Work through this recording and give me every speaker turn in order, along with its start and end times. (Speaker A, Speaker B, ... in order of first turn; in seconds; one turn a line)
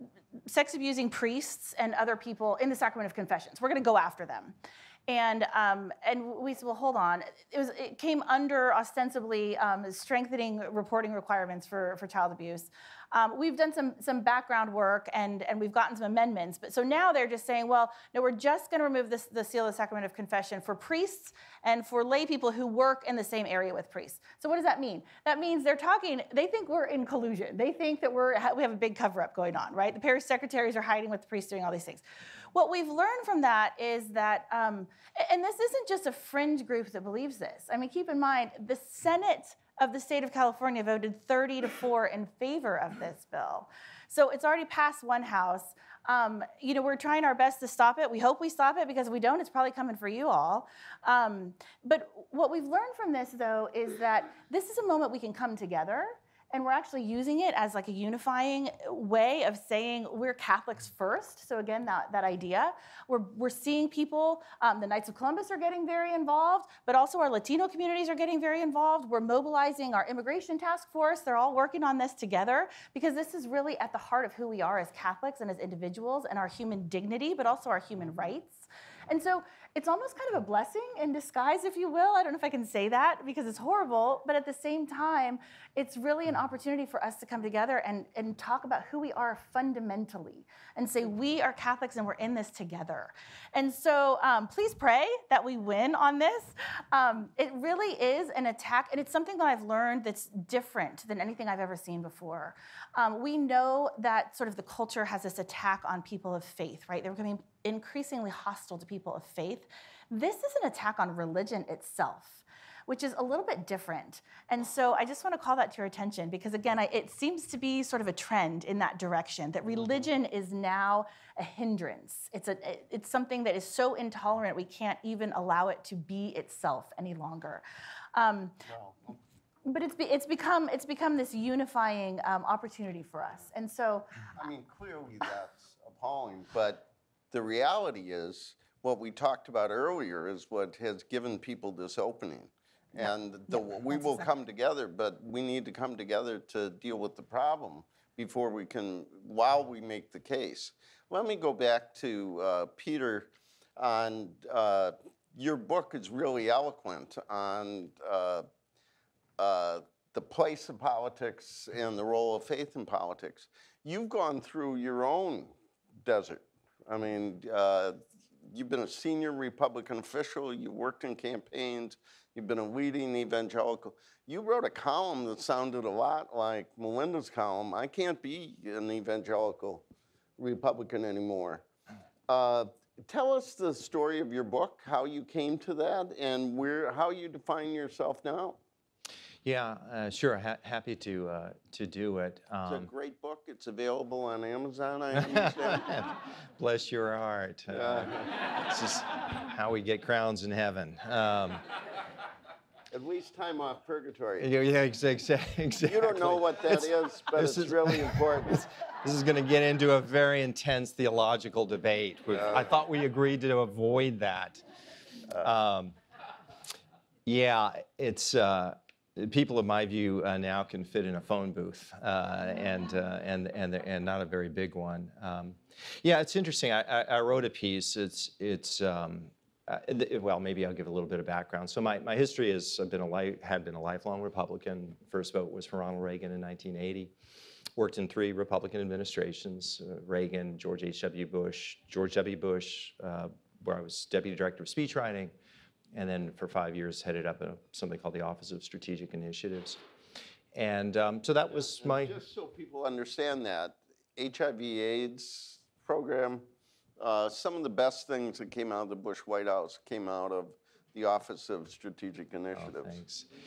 Speaker A: 0.5-127.6
Speaker A: 128.1-128.6
Speaker B: 128.7-129.2
Speaker A: 129.6-134.2
Speaker B: 134.3-158.5
Speaker B: 159.4-179.8
Speaker B: 180.4-181.6
Speaker B: 182.3-188.6
Speaker C: 189.4-192.9
Speaker B: 192.7-195.9
Speaker C: 195.2-201.6
Speaker B: 197.7-198.3
Speaker B: 202.9-204.5
Speaker C: 204.4-214.6
Speaker B: 205.8-208.6
Speaker B: 212.3-212.7
Speaker C: 215.4-215.9
Speaker C: 217.2-237.1
Speaker C: 237.8-245.3
Speaker C: 245.9-249.8
Speaker C: 250.5-252.2
Speaker B: 251.6-263.0
Speaker C: 262.5-263.3